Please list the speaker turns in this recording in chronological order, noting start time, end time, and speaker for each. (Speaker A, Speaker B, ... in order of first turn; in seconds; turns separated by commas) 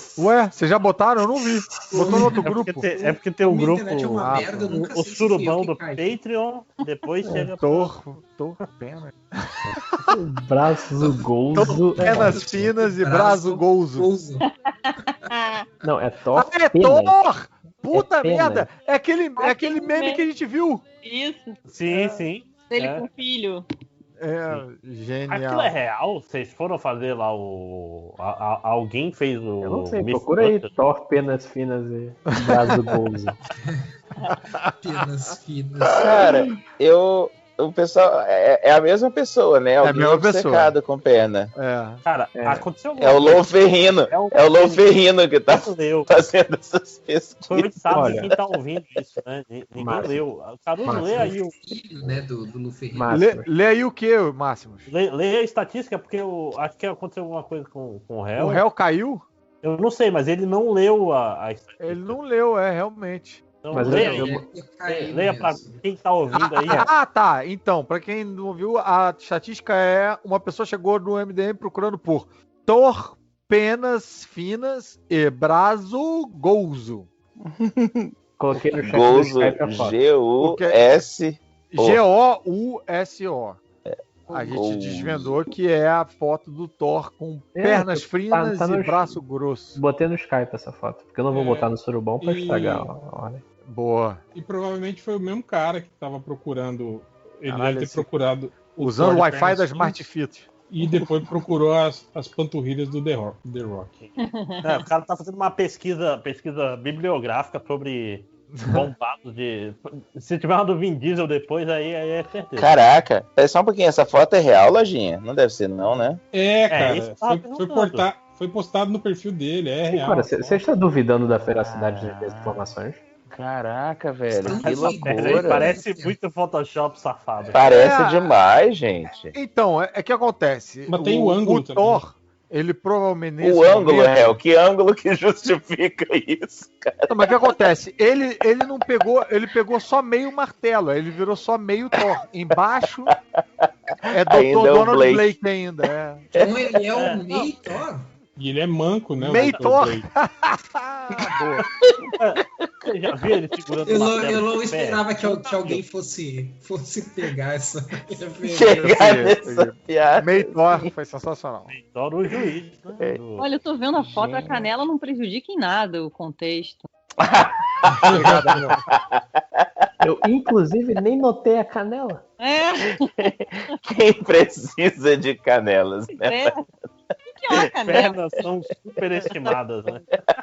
Speaker A: 0.2-3.0, Speaker B: 1.9-2.4, Speaker C: 2.4-8.0, Speaker B: 3.0-6.2, Speaker A: 4.2-4.8, Speaker D: 7.2-7.5, Speaker A: 7.6-9.1, Speaker D: 10.1-12.4, Speaker B: 11.0-14.4, Speaker A: 11.5-14.1, Speaker E: 14.4-15.7, Speaker D: 15.8-17.2, Speaker A: 16.3-20.8, Speaker D: 17.9-18.7, Speaker E: 19.4-20.2, Speaker E: 21.0-23.6, Speaker C: 21.7-23.1, Speaker A: 24.2-25.7, Speaker C: 25.3-30.7, Speaker D: 29.6-33.4, Speaker A: 34.3-34.6, Speaker B: 34.8-36.4, Speaker F: 35.8-41.5, Speaker A: 39.8-40.7, Speaker A: 41.5-42.0, Speaker C: 42.0-44.9, Speaker D: 42.3-42.7, Speaker F: 43.0-48.3, Speaker C: 45.5-46.2, Speaker C: 47.5-51.5, Speaker D: 47.9-48.3, Speaker D: 49.8-50.2, Speaker D: 50.8-51.3, Speaker B: 51.1-53.2, Speaker D: 52.9-53.5, Speaker A: 53.1-54.9, Speaker C: 54.9-58.6, Speaker A: 58.4-59.2, Speaker C: 59.6-62.2, Speaker A: 61.8-63.4, Speaker C: 63.6-64.3, Speaker D: 63.7-64.4, Speaker B: 63.7-65.8, Speaker C: 64.8-66.9, Speaker A: 66.3-77.1, Speaker F: 77.6-82.0, Speaker D: 78.4-80.0, Speaker A: 80.4-80.8, Speaker A: 81.7-83.6, Speaker F: 83.8-85.4, Speaker A: 84.3-89.8, Speaker D: 87.5-89.2, Speaker D: 89.8-93.4, Speaker G: 91.3-92.9, Speaker A: 93.6-94.2, Speaker G: 94.3-100.0, Speaker A: 97.5-98.1, Speaker A: 98.8-100.5, Speaker G: 100.7-104.1, Speaker E: 104.2-104.8, Speaker C: 104.6-112.8, Speaker A: 108.5-108.9, Speaker F: 112.6-116.2, Speaker G: 116.3-120.6, Speaker C: 116.7-118.1, Speaker D: 119.9-123.0, Speaker F: 121.8-122.5, Speaker F: 123.3-125.8, Speaker B: 124.3-126.2, Speaker C: 124.5-127.6, Speaker F: 127.5-129.3, Speaker A: 127.6-128.4, Speaker A: 129.3-134.4, Speaker G: 130.9-132.0, Speaker F: 133.4-137.5, Speaker A: 137.1-143.1, Speaker A: 144.1-146.3, Speaker F: 144.3-145.3, Speaker B: 146.3-148.1, Speaker F: 146.4-146.8, Speaker C: 146.9-147.5, Speaker G: 148.4-150.1, Speaker A: 149.2-151.7, Speaker F: 151.9-152.7, Speaker C: 152.2-155.8, Speaker B: 153.8-158.9, Speaker F: 158.4-160.9, Speaker A: 158.8-161.7, Speaker C: 161.7-163.5, Speaker E: 163.4-166.8, Speaker F: 164.2-164.7, Speaker F: 167.2-169.2, Speaker A: 168.1-168.7, Speaker D: 170.0-172.2, Speaker E: 172.4-173.1, Speaker F: 173.2-176.5, Speaker E: 176.2-176.7, Speaker E: 177.4-178.2, Speaker C: 177.8-180.1